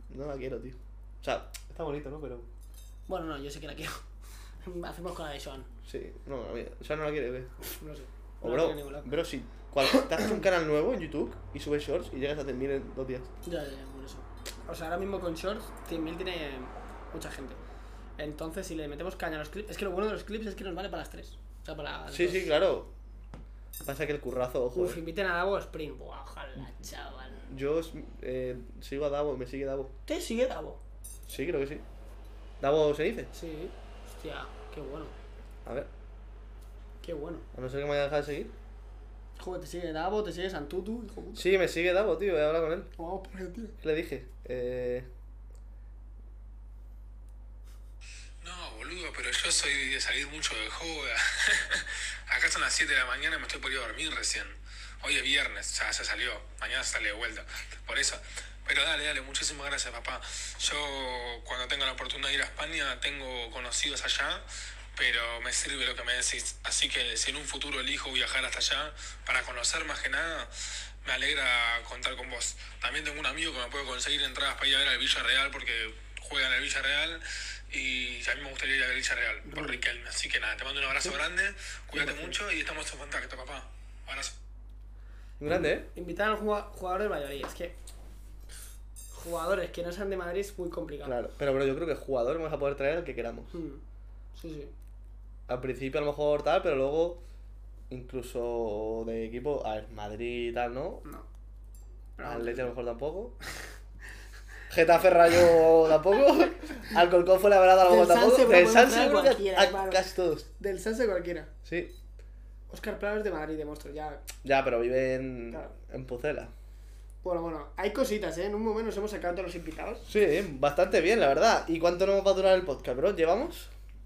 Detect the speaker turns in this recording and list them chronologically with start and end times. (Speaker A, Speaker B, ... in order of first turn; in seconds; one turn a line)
Speaker A: 0.1-2.5
Speaker B: 3.1-4.0
Speaker B: 4.6-5.7
Speaker A: 5.8-7.5
Speaker B: 7.6-9.1
Speaker A: 8.4-13.3
Speaker B: 13.4-17.6
Speaker B: 18.2-22.5
Speaker A: 22.1-22.9
Speaker A: 23.9-25.0
Speaker B: 24.7-27.4
Speaker A: 27.5-29.9
Speaker B: 30.1-30.8
Speaker A: 31.3-31.8
Speaker A: 32.6-33.3
Speaker B: 33.3-35.1
Speaker B: 37.0-37.5
Speaker A: 37.5-38.5
Speaker B: 39.4-41.5
Speaker A: 41.4-42.9
Speaker B: 43.0-43.8
Speaker A: 43.8-45.1
Speaker C: 48.4-64.5
Speaker C: 65.0-84.3
Speaker B: 79.5-79.8
Speaker A: 82.0-82.4
Speaker A: 85.4-85.9
Speaker B: 86.0-87.8
Speaker B: 89.1-91.2
Speaker A: 91.0-93.5
Speaker B: 93.5-93.8
Speaker B: 94.3-94.7
Speaker A: 95.5-97.2
Speaker A: 97.9-101.0
Speaker B: 102.2-102.7
Speaker A: 102.2-103.4
Speaker A: 104.7-110.5
Speaker B: 107.8-110.0
Speaker B: 110.6-111.5
Speaker A: 111.6-111.9
Speaker B: 112.7-114.3
Speaker A: 114.4-116.5
Speaker B: 117.2-120.1
Speaker A: 120.1-123.7